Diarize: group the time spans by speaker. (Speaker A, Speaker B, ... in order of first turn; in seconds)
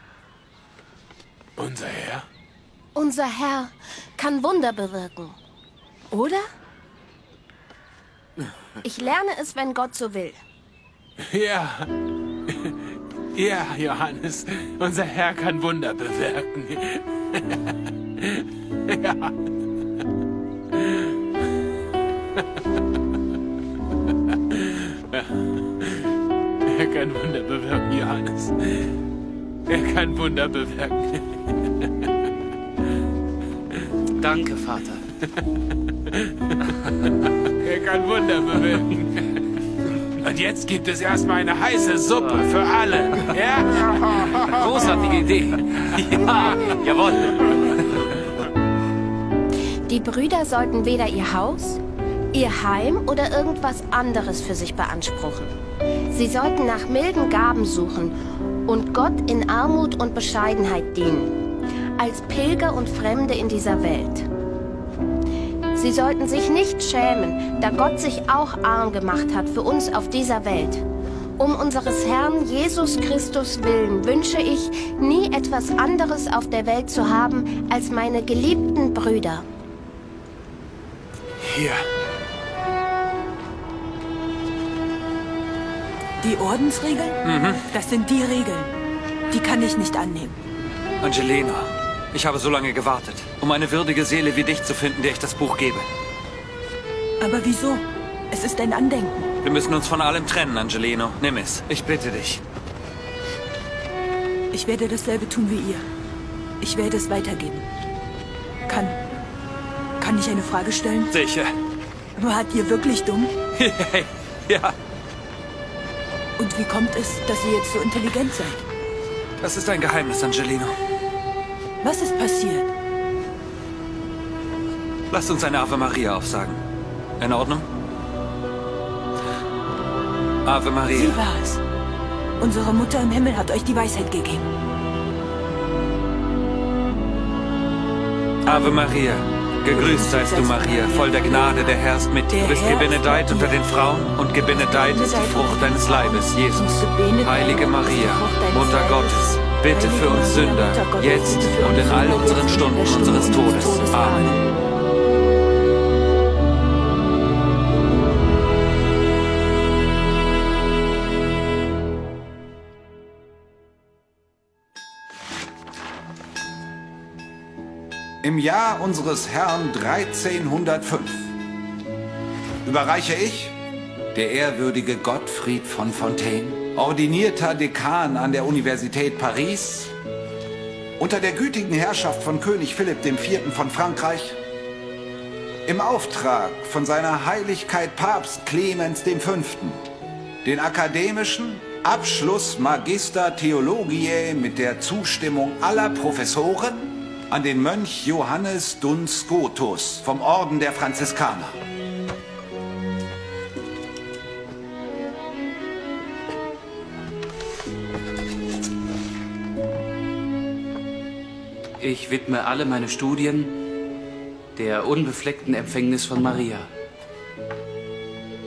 Speaker A: 1.6-2.2, 11.2-11.9, 12.5-12.8, 13.3-17.6, 18.2-19.4, 20.7-21.1, 24.5-26.1, 26.7-28.9, 29.7-31.9, 37.6-39.2, 40.2-44.5
Speaker B: 3.0-5.4, 6.1-6.5, 8.8-10.4, 49.9-51.8, 52.3-55.5, 56.1-61.3, 62.0-64.3, 65.8-70.8, 71.4-79.5
Speaker C: 34.2-35.1, 42.2-42.5, 44.4-47.9, 211.8-213.6, 214.6-216.7
Speaker D: 81.4-81.9, 87.2-87.7, 91.0-95.9, 99.4-102.4, 111.1-111.5, 113.5-114.8, 119.4-120.8, 125.1-126.6, 127.2-127.7, 130.4-131.2, 138.4-154.2
Speaker E: 86.2-87.2, 87.7-88.7, 89.3-90.4, 97.2-99.3, 104.5-105.9, 106.6-107.7, 108.7-109.0, 110.0-111.1, 112.2-113.3, 116.4-118.6, 121.8-122.7, 130.9-131.6, 132.4-134.5, 139.7-141.7, 142.3-143.6, 144.5-154.4
Speaker F: 168.2-171.3, 172.7-173.5, 174.1-179.9, 181.0-184.4, 185.7-189.8, 190.4-201.6